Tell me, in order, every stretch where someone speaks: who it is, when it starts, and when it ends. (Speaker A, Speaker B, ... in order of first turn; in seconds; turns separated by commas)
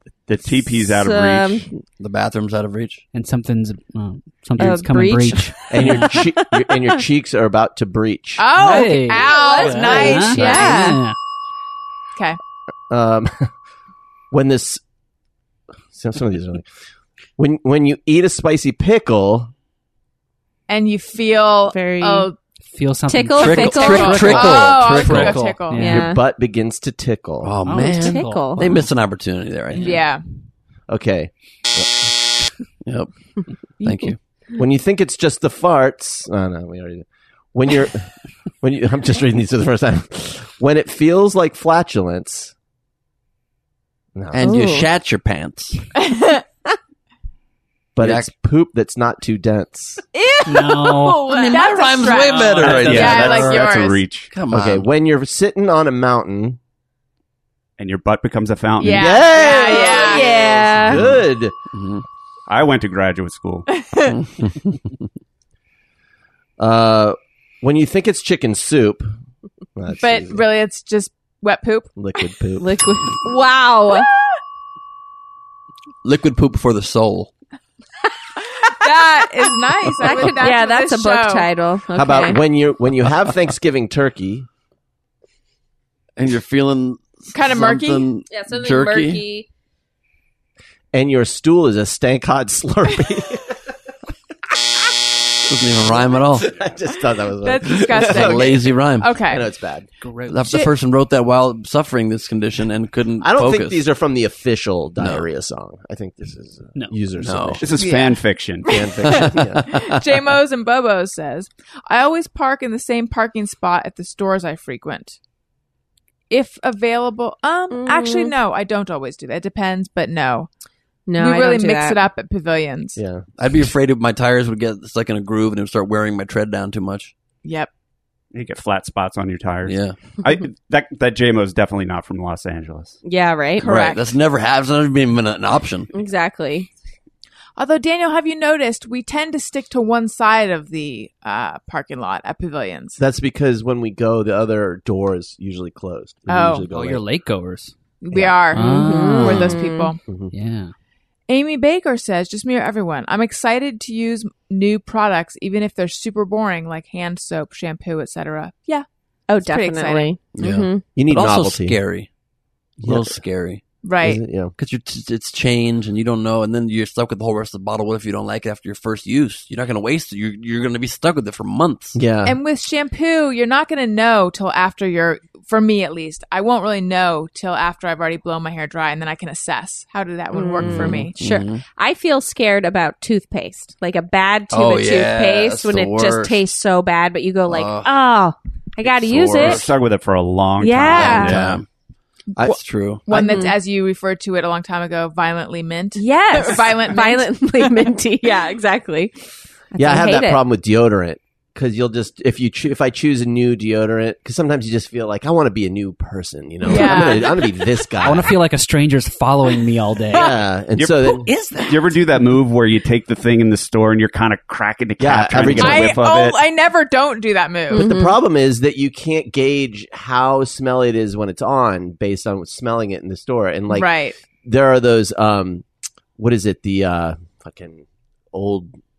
Speaker A: 0.3-1.6, Speaker B: 0.5-1.8, Speaker C: 2.0-3.0, Speaker D: 3.1-6.2, Speaker B: 4.6-6.5, Speaker E: 5.7-8.5, Speaker F: 8.4-11.0, Speaker D: 8.5-11.2, Speaker B: 8.7-11.0, Speaker E: 12.9-13.5, Speaker E: 14.3-14.8, Speaker E: 15.9-16.6, Speaker E: 17.4-19.5, Speaker F: 20.7-22.4, Speaker B: 21.7-22.3, Speaker D: 22.7-26.2, Speaker B: 23.1-24.7, Speaker C: 23.4-25.6, Speaker F: 23.6-25.8, Speaker B: 25.7-26.2, Speaker E: 25.9-27.6, Speaker C: 27.4-30.0, Speaker D: 27.6-28.9, Speaker B: 27.8-28.6, Speaker F: 29.7-30.2, Speaker E: 30.9-32.1, Speaker C: 32.8-33.1, Speaker C: 33.8-34.2, Speaker E: 34.5-42.5, Speaker E: 44.1-44.5, Speaker C: 44.3-45.9, Speaker B: 44.4-44.9, Speaker F: 46.0-46.4, Speaker E: 47.9-50.0, Speaker C: 48.0-48.3, Speaker F: 50.1-54.0, Speaker D: 50.4-51.5, Speaker C: 51.2-54.9, Speaker D: 52.0-53.0, Speaker A: 52.6-54.3, Speaker E: 54.5-56.6, Speaker A: 57.8-59.2, Speaker F: 58.8-60.3, Speaker E: 58.8-61.5, Speaker B: 59.3-61.0, Speaker C: 60.8-61.2, Speaker C: 61.7-62.0, Speaker A: 62.5-63.8, Speaker F: 63.8-64.1, Speaker C: 64.1-64.8, Speaker E: 66.6-69.1, Speaker E: 69.8-70.4, Speaker F: 70.0-71.9, Speaker E: 72.0-72.8, Speaker B: 72.6-74.1, Speaker F: 73.9-74.3, Speaker C: 76.0-77.3, Speaker F: 78.6-81.5, Speaker B: 80.0-82.4, Speaker E: 81.9-84.5, Speaker C: 86.2-89.2, Speaker F: 87.3-88.1, Speaker B: 88.3-89.5, Speaker E: 90.9-93.6, Speaker C: 95.4-96.5, Speaker E: 95.8-98.6, Speaker F: 97.4-99.4, Speaker C: 97.8-99.2, Speaker E: 99.2-99.9, Speaker D: 100.0-100.5, Speaker C: 100.3-103.8, Speaker E: 103.2-107.6, Speaker C: 105.0-105.2, Speaker C: 107.2-107.6, Speaker A: 107.6-108.7, Speaker F: 107.8-115.2, Speaker E: 108.6-109.8, Speaker C: 109.2-109.8, Speaker F: 116.3-120.5, Speaker B: 117.7-118.3, Speaker B: 121.1-122.0, Speaker F: 121.2-123.0, Speaker E: 123.0-123.2, Speaker C: 123.4-127.1, Speaker F: 127.4-127.7, Speaker A: 128.3-133.0, Speaker C: 129.7-129.9, Speaker B: 133.0-133.9, Speaker F: 133.6-134.0, Speaker C: 133.6-135.9, Speaker B: 135.9-136.7, Speaker F: 137.6-143.0, Speaker E: 143.0-147.0, Speaker F: 146.3-146.7, Speaker D: 146.7-147.7, Speaker F: 148.0-150.0, Speaker E: 148.1-148.6, Speaker D: 148.5-149.6, Speaker B: 148.6-149.9, Speaker E: 150.1-150.3, Speaker D: 150.3-150.7, Speaker F: 151.3-158.8, Speaker B: 159.3-160.8, Speaker F: 159.4-160.1, Speaker C: 160.3-162.1, Speaker E: 160.9-161.8, Speaker C: 162.8-163.6, Speaker E: 162.8-163.2, Speaker F: 163.8-164.2, Speaker E: 164.0-164.5, Speaker C: 164.6-172.0, Speaker E: 171.9-172.4, Speaker F: 172.2-181.2, Speaker B: 180.3-189.6, Speaker C: 180.6-181.6, Speaker C: 184.5-186.4, Speaker C: 187.5-187.9, Speaker C: 188.8-189.7, Speaker A: 189.3-191.4, Speaker B: 190.6-191.4, Speaker C: 190.9-191.6, Speaker E: 191.2-191.6, Speaker F: 192.3-197.9, Speaker C: 192.4-193.0, Speaker B: 193.1-193.6, Speaker B: 195.9-199.1, Speaker B: 199.7-200.4, Speaker E: 199.8-208.3, Speaker F: 206.6-207.7, Speaker D: 208.0-210.4, Speaker E: 210.1-211.3, Speaker A: 210.8-216.4, Speaker C: 211.2-212.0, Speaker E: 215.0-216.0, Speaker F: 215.6-217.8, Speaker B: 217.7-218.2, Speaker E: 217.7-223.9, Speaker F: 223.7-224.2, Speaker E: 224.4-225.6, Speaker E: 226.2-228.7